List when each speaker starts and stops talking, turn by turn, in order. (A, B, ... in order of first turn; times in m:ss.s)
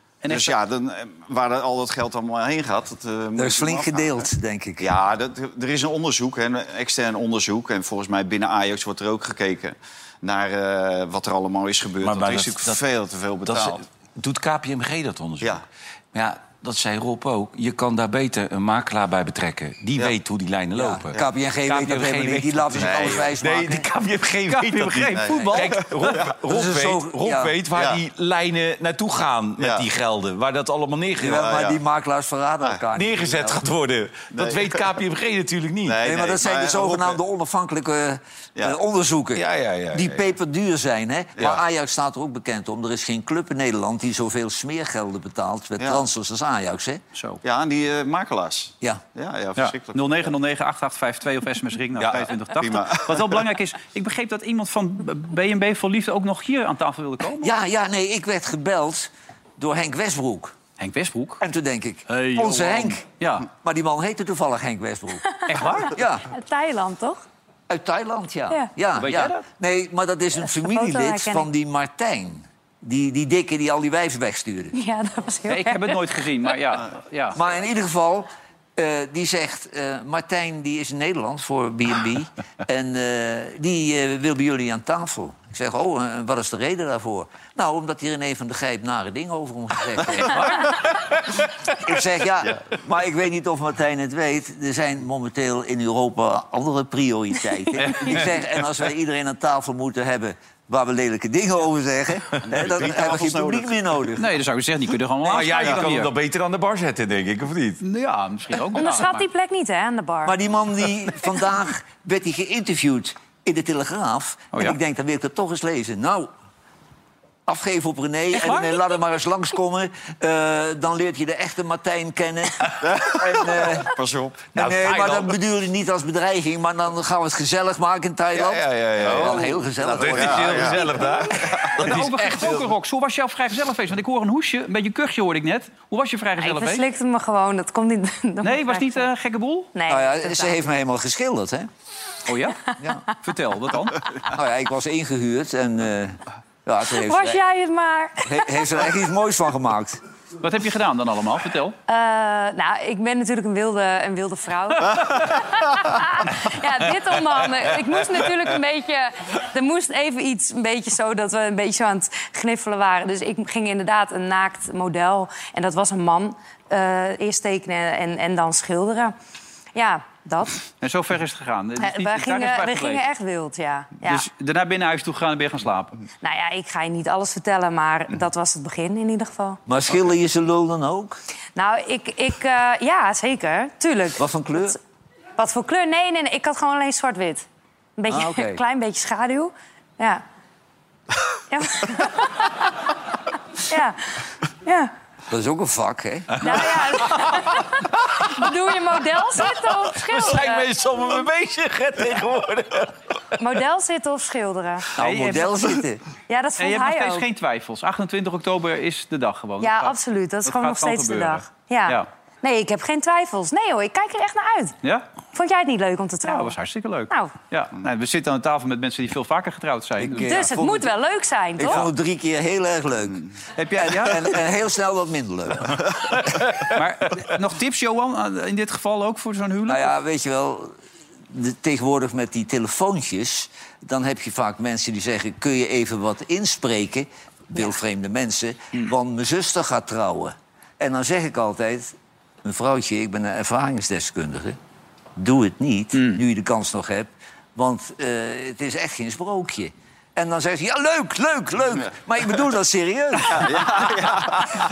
0:00.2-0:00.6 A
0:00.3-0:04.3 B
0:03.4-0:04.9 C
0:04.8-0:13.8 B
0:12.0-0:12.8 D
0:13.4-0:31.4 D
0:20.7-0:23.9 C
0:22.8-0:23.3 B
0:24.5-0:26.2 A
0:25.2-0:26.4 B
0:26.5-0:27.6 C
0:27.7-0:28.0 B
0:29.6-0:29.9 B
0:31.2-0:33.6 C
0:31.2-0:31.8 B
0:33.0-0:36.0 D
0:34.3-0:35.0 B
0:35.9-0:37.2 B
0:36.0-0:47.0 C
0:39.4-0:40.2 D
0:41.4-0:41.6 B
0:45.8-0:46.0 B
0:47.1-0:47.4 A
0:47.4-0:50.4 B
0:49.6-0:57.5 A
0:52.0-0:53.5 B
0:57.4-1:00.6 C
1:00.8-1:01.4 A
1:01.4-1:05.2 C
1:02.5-1:02.8 D
1:03.2-1:03.5 A
1:05.4-1:05.8 E
1:05.5-1:06.0 A
1:05.8-1:06.3 C
1:06.3-1:07.2 E
1:07.7-1:14.8 C
1:09.0-1:09.4 A
1:10.4-1:11.5 E
1:14.7-1:16.0 E
1:15.5-1:17.4 A
1:17.3-1:30.6 C
1:31.8-1:44.3 C
1:42.5-1:44.0 B
1:44.2-1:46.1 A
1:45.2-1:47.8 D
1:47.8-1:49.3 A
1:48.8-1:50.4 E
1:50.2-1:56.3 C
1:57.5-2:03.9 C
1:58.3-1:58.8 A
2:02.8-2:04.5 B
2:04.6-2:11.0 C
2:04.6-2:05.4 D
2:08.4-2:12.7 D
2:09.0-2:09.4 B
2:09.9-2:11.8 B
2:11.8-2:16.8 A
2:16.4-2:19.1 E
2:18.4-2:19.7 A
2:19.7-2:20.6 E
2:19.9-2:21.7 C
2:22.3-2:24.0 A
2:24.3-2:27.4 C
2:26.9-2:28.5 E
2:28.2-2:30.0 C
2:30.4-2:31.8 A
2:31.9-2:49.2 E
2:49.8-2:50.6 E
2:50.8-2:53.0 A
2:51.8-2:54.3 E
2:54.0-2:56.0 A
2:56.2-2:59.6 E
2:59.7-3:01.2 C
3:01.6-3:04.8 E
3:04.2-3:04.8 C
3:05.4-3:10.2 E
3:08.1-3:08.6 C
3:11.5-3:12.7 E
3:13.7-3:14.9 E
3:15.3-3:16.6 C
3:16.4-3:20.7 E
3:19.8-3:22.9 D
3:23.4-3:24.9 E
3:25.0-3:26.0 C
3:25.0-3:25.8 A
3:26.3-3:27.3 E
3:26.6-3:32.1 A
3:29.6-3:34.8 E
3:35.3-3:36.5 E
3:36.2-3:40.5 A
3:40.0-3:40.9 C
3:40.2-3:41.8 E
3:41.6-3:43.2 C
3:43.6-3:44.4 A
3:43.8-3:45.9 C
3:46.7-3:49.9 A
3:49.7-3:50.7 C
3:51.3-4:04.6 C
4:05.2-4:14.0 C
4:05.9-4:06.2 A
4:13.3-4:14.6 B